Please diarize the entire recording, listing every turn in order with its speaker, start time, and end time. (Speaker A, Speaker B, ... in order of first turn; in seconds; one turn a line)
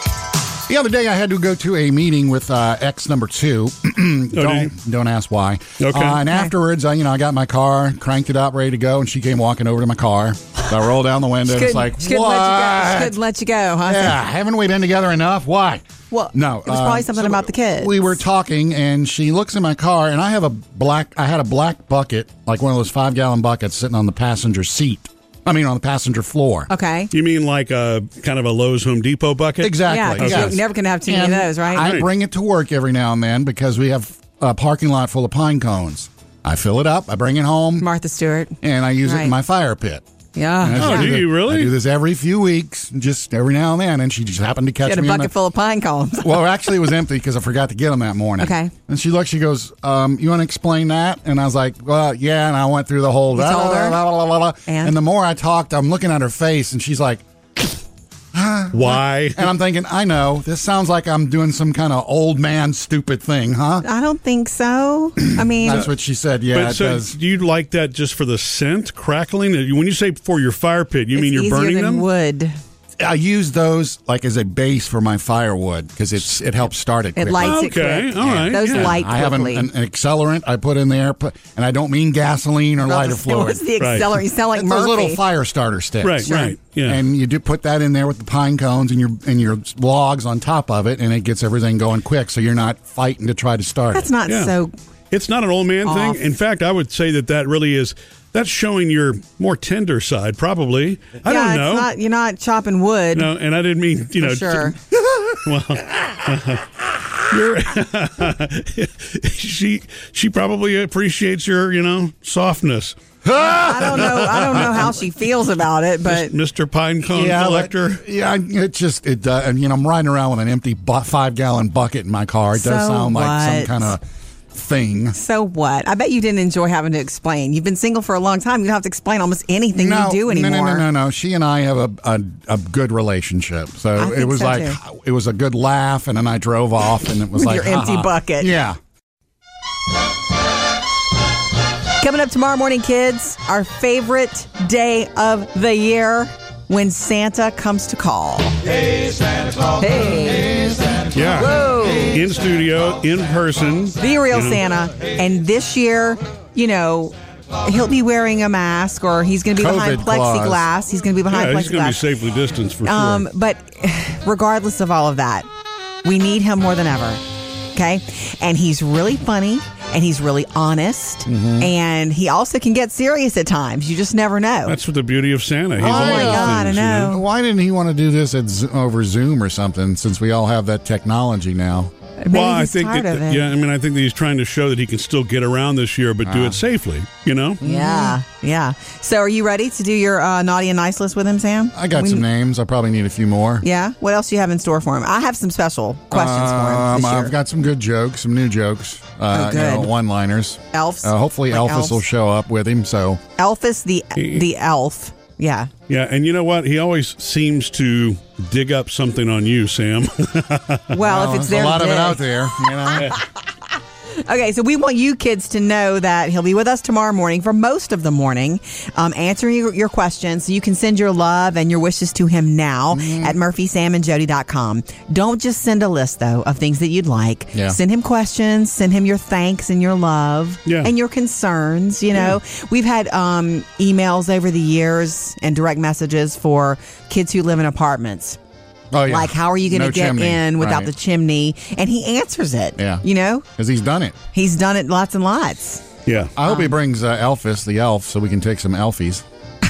Speaker A: 0.7-13.2
Speaker B: 4.3-4.7
Speaker B: 5.8-6.2
Speaker C: 11.5-14.2
Speaker A: 13.8-26.7
Speaker C: 16.1-18.2
Speaker C: 26.7-27.1
Speaker B: 27.1-30.6
Speaker A: 29.6-37.9
Speaker C: 29.9-31.9
Speaker B: 31.8-32.1
Speaker C: 37.8-39.4
Speaker A: 38.6-40.0
Speaker C: 40.4-41.1
Speaker A: 40.6-45.3
Speaker B: 40.8-41.7
Speaker C: 44.8-46.5
Speaker A: 46.2-57.2
Speaker C: 48.4-48.7
Speaker C: 53.3-54.0
Speaker C: 54.7-55.0
Speaker A: 58.3-63.8
Speaker B: 58.7-59.5
Speaker C: 63.8-65.9
Speaker A: 65.4-67.2
Speaker B: 66.5-72.1
Speaker C: 71.1-72.6
Speaker A: 73.0-77.6
Speaker C: 77.2-79.7
Speaker B: 77.4-78.9
Speaker A: 78.2-83.6
Speaker C: 82.8-85.2
Speaker B: 83.8-84.2
Speaker A: 84.5-94.1
Speaker B: 86.0-87.0
Speaker C: 86.3-86.5
Speaker C: 93.9-94.7
Speaker B: 94.3-94.5
Speaker B: 95.1-101.9
Speaker C: 95.8-96.2
Speaker C: 101.2-103.3
Speaker B: 103.1-104.8
Speaker C: 104.2-104.8
Speaker A: 105.0-105.4
Speaker B: 105.4-106.7
Speaker B: 107.3-113.0
Speaker A: 113.2-115.0
Speaker C: 113.4-116.3
Speaker B: 116.1-118.0
Speaker A: 117.0-124.0
Speaker C: 122.6-124.0
Speaker A: 124.5-125.2
Speaker C: 125.1-130.9
Speaker A: 129.8-138.8
Speaker C: 134.0-134.8
Speaker C: 137.3-138.5
Speaker C: 142.0-148.6
Speaker C: 149.8-150.8
Speaker B: 151.1-151.5
Speaker C: 151.3-152.2
Speaker B: 152.1-154.6
Speaker C: 154.0-162.0
Speaker A: 159.6-160.7
Speaker B: 161.3-163.3
Speaker C: 162.8-165.5
Speaker C: 166.0-167.2
Speaker C: 167.7-174.8
Speaker A: 171.3-171.7
Speaker B: 174.7-177.1
Speaker A: 175.8-181.9
Speaker C: 175.8-177.2
Speaker C: 182.2-183.4
Speaker B: 182.3-187.6
Speaker A: 186.2-186.6
Speaker C: 187.6-192.2
Speaker A: 187.6-188.2
Speaker A: 191.7-193.7
Speaker C: 193.6-197.3
Speaker A: 196.1-203.2
Speaker C: 199.3-199.9
Speaker C: 200.7-202.0
Speaker C: 203.4-205.7
Speaker B: 204.2-204.5
Speaker B: 205.9-210.9
Speaker C: 210.9-212.3
Speaker A: 211.0-213.1
Speaker C: 212.8-213.2
Speaker C: 214.2-238.4
Speaker A: 222.9-223.3
Speaker A: 238.9-240.9
Speaker C: 239.1-243.5
Speaker A: 242.8-243.0
Speaker A: 243.6-244.2
Speaker C: 244.3-245.8
Speaker B: 246.1-246.3
Speaker A: 246.3-249.2
Speaker C: 246.4-246.7